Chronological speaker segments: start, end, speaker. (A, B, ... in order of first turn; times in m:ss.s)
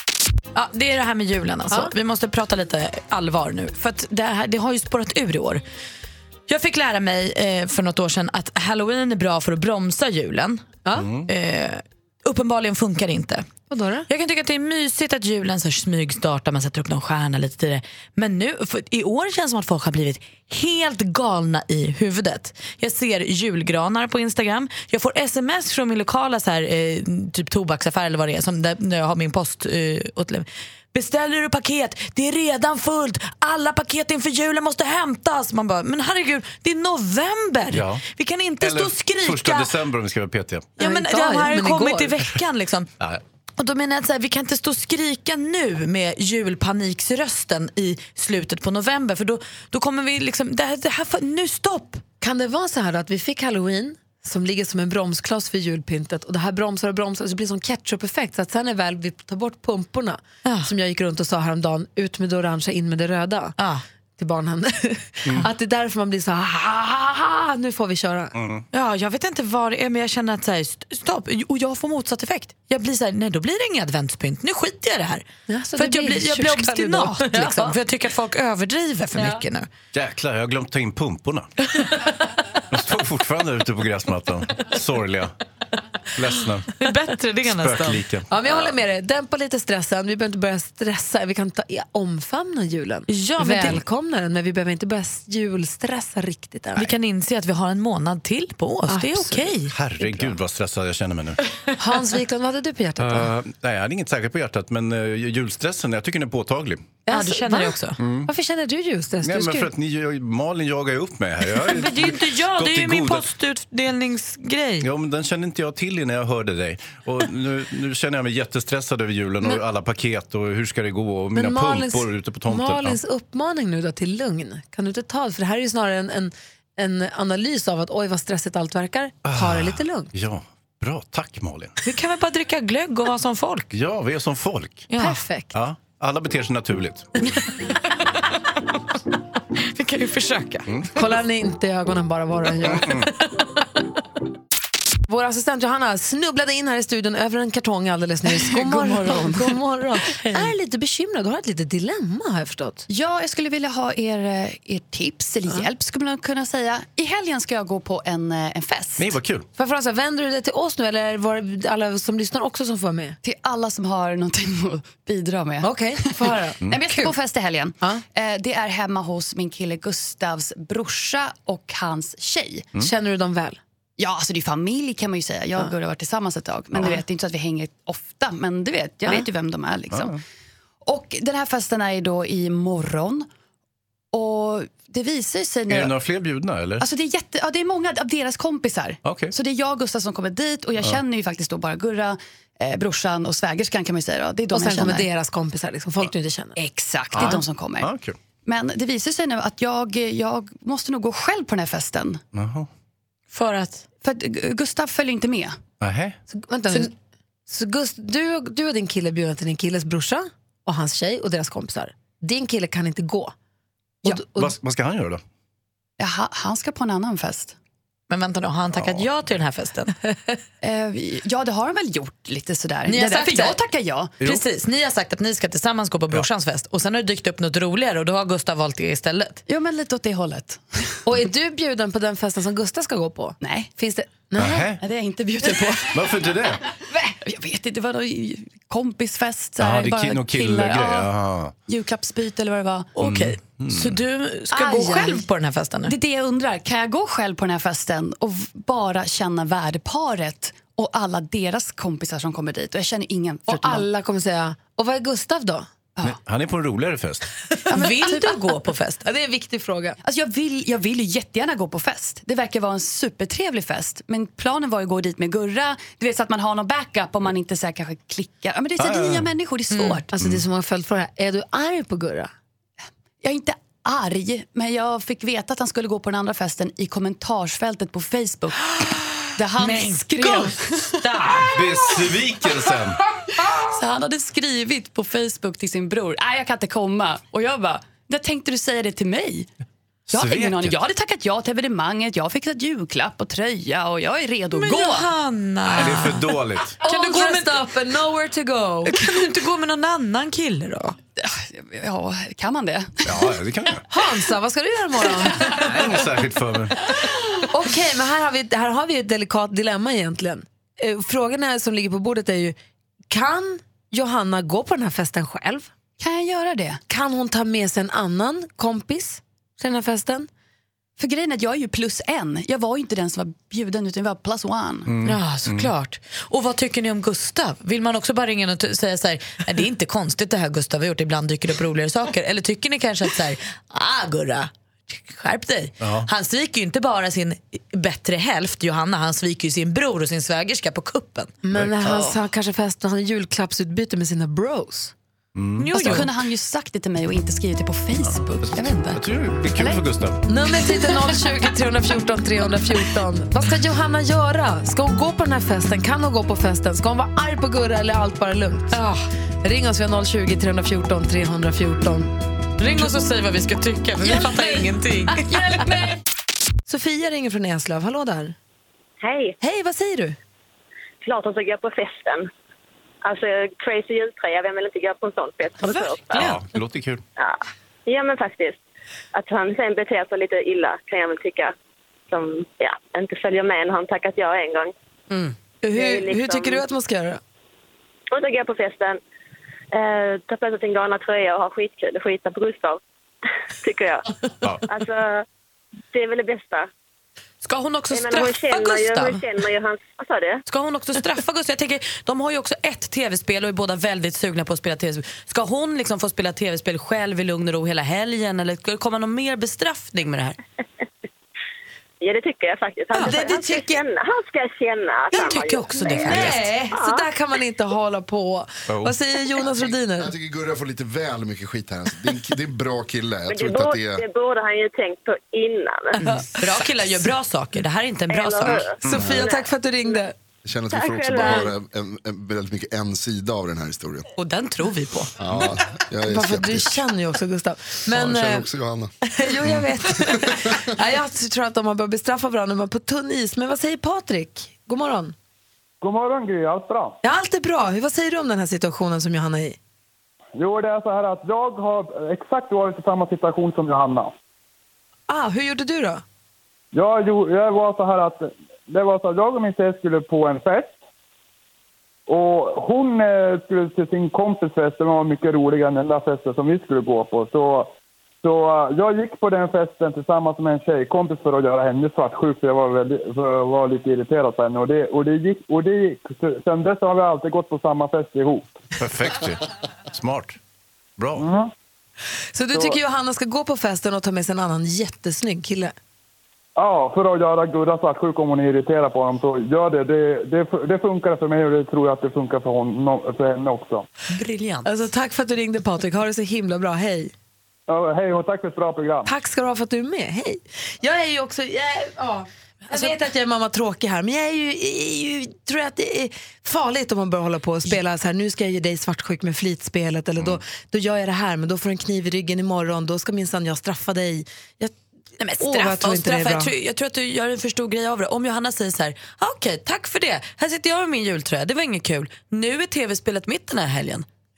0:00.5-0:05.6 A
0:06.5-0:10.7 A
0:11.0-0:11.3 B
0:11.3-0:13.5 A
0:13.7-0:14.1 C
0:14.1-0:39.7 A
0:37.7-0:38.0 B
0:38.6-0:40.7 B
0:40.8-0:42.9 A
0:40.8-0:42.1 C
0:43.6-0:52.0 A
0:52.2-1:03.5 C
1:00.4-1:00.7 A
1:03.6-1:03.8 A
1:04.2-1:08.3 C
1:08.3-1:08.6 B
1:08.7-1:19.7 A
1:15.5-1:17.8 C
1:19.2-1:19.4 C
1:19.9-1:21.8 B
1:22.7-1:25.3 B
1:26.1-1:26.7 B
1:26.8-1:28.0 A
1:27.4-1:28.3 B
1:28.3-1:36.9 C
1:33.1-1:33.8 A
1:36.8-1:39.7 A
1:38.9-1:40.3 C
1:39.7-1:41.4 B
1:41.8-1:43.3 C
1:43.0-1:46.8 B
1:47.1-1:49.7 C
1:47.1-1:48.0 A
1:48.0-1:48.3 B
1:49.2-1:53.3 B
1:51.5-1:54.9 A
1:54.8-2:03.0 B
2:01.3-2:10.1 C
2:09.2-2:11.8 B
2:11.8-2:13.7 A
2:13.7-2:14.8 B
2:14.9-2:15.2 A
2:15.0-2:15.5 C
2:15.5-2:17.2 B
2:19.6-2:20.7 A
2:20.9-2:23.1 C
2:22.6-2:23.1 B
2:25.1-2:32.8 C
2:28.4-2:30.5 A
2:32.9-2:39.1 D
2:39.0-2:39.4 B
2:39.6-2:43.2 C
2:43.2-2:52.7 D
2:45.6-2:47.2 C
2:52.8-2:53.6 C
2:54.0-3:00.1 D
2:59.9-3:00.2 B
3:00.8-3:03.3 D
3:04.1-3:05.9 D
3:05.7-3:06.8 B
3:06.8-3:15.1 D
3:09.0-3:09.3 B
3:14.5-3:16.6 C
3:16.6-3:17.9 D
3:17.1-3:18.1 B
3:18.4-3:22.2 D
3:22.3-3:22.7 B
3:23.3-3:23.8 A
3:24.0-3:25.6 D
3:25.8-3:26.2 B
3:26.3-3:26.9 C
3:27.5-3:33.3 C
3:34.0-3:34.5 C
3:34.3-3:35.2 B
3:36.0-3:37.6 D
3:38.1-3:39.9 A
3:38.8-3:39.1 B
3:40.6-3:44.1 D
3:42.8-3:43.6 C
3:44.2-3:49.4 A
3:49.5-3:51.0 D
3:51.0-3:54.7 C
3:53.4-3:53.7 D
3:54.4-3:54.8 B
3:54.8-3:56.0 D
3:55.9-3:56.6 B
3:56.9-4:01.1 D
3:59.6-4:01.5 B
4:01.7-4:02.9 D
4:02.9-4:05.9 A
4:03.0-4:04.0 B
4:04.5-4:05.2 D
4:05.9-4:13.9 D
4:13.5-4:15.7 C
4:16.0-4:17.3 B
4:17.7-4:18.4 D
4:17.7-4:19.0 A
4:19.0-4:20.0 C
4:20.0-4:30.1 D
4:28.8-4:29.3 B
4:29.7-4:30.0 A
4:30.1-4:32.3 C
4:33.2-4:38.8 D
4:39.4-4:41.5 D
4:39.6-4:41.1 C
4:41.5-4:43.0 B
4:43.5-4:49.5 D
4:50.1-4:50.8 B
4:50.1-4:55.1 D
4:54.5-4:56.2 A
4:55.7-4:56.8 B
4:56.8-4:57.6 A
4:56.8-4:59.1 C
4:58.8-5:01.0 A
5:01.2-5:03.0 D
5:03.0-5:03.8 B
5:03.9-5:05.8 C
5:05.5-5:06.9 B
5:07.5-5:12.6 C
5:13.1-5:15.7 C
5:16.0-5:16.8 D
5:16.9-5:20.3 C
5:21.0-5:24.9 D
5:24.9-5:25.7 B
5:25.0-5:41.3 A
5:35.8-5:36.1 B
5:41.4-5:44.9 C
5:41.5-5:41.8 B
5:45.3-5:45.7 B
5:45.6-5:46.1 A
5:45.7-5:49.0 D
5:48.0-5:50.2 B
5:49.6-5:49.8 D
5:50.3-5:58.8 C
5:58.7-5:59.0 A
5:59.4-6:02.1 C
6:02.6-6:05.3 A
6:04.0-6:04.5 C
6:05.1-6:06.0 C
6:06.7-6:08.4 C
6:09.0-6:09.4 E
6:09.4-6:10.2 C
6:11.0-6:12.3 E
6:13.0-6:16.3 E
6:16.1-6:17.0 B
6:17.2-6:18.6 E
6:19.1-6:21.5 E
6:22.1-6:24.7 E
6:25.6-6:27.2 C
6:25.7-6:26.6 E
6:28.1-6:29.0 E
6:29.7-6:32.8 E
6:33.6-6:34.1 E
6:34.7-6:35.2 E
6:35.9-6:36.7 E
6:37.4-6:39.2 A
6:37.9-6:40.4 E
6:40.4-6:50.4 A
6:52.0-6:57.0 E
6:52.9-6:53.7 A
6:53.0-6:53.6 C
6:55.1-6:56.5 A
6:55.8-7:00.1 C
6:58.7-6:58.9 B
7:00.0-7:04.0 F
7:03.3-7:06.0 E
7:06.0-7:08.6 A
7:06.0-7:06.4 C
7:08.1-7:09.5 E
7:08.8-7:10.1 C
7:10.4-7:14.0 F
7:10.7-7:11.5 E
7:14.2-7:15.1 A
7:15.2-7:16.8 F
7:16.0-7:18.5 C
7:17.9-7:18.9 F
7:19.1-7:25.1 C
7:20.2-7:20.6 F
7:25.8-7:27.0 G
7:27.0-7:29.6 C
7:30.4-7:34.1 G
7:35.1-7:36.0 C
7:36.7-7:40.8 G
7:42.1-7:47.7 G
7:48.2-7:58.5 G
7:58.8-8:00.4 B
8:01.0-8:01.2 B
8:01.2-8:01.5 G
8:02.3-8:05.7 C
8:06.6-8:13.9 G
8:14.1-8:14.7 A
8:14.6-8:17.1 C
8:17.7-8:19.1 G
8:19.0-8:34.7 C
8:22.7-8:22.9 A
8:35.2-8:44.0 A
8:35.4-8:36.5 C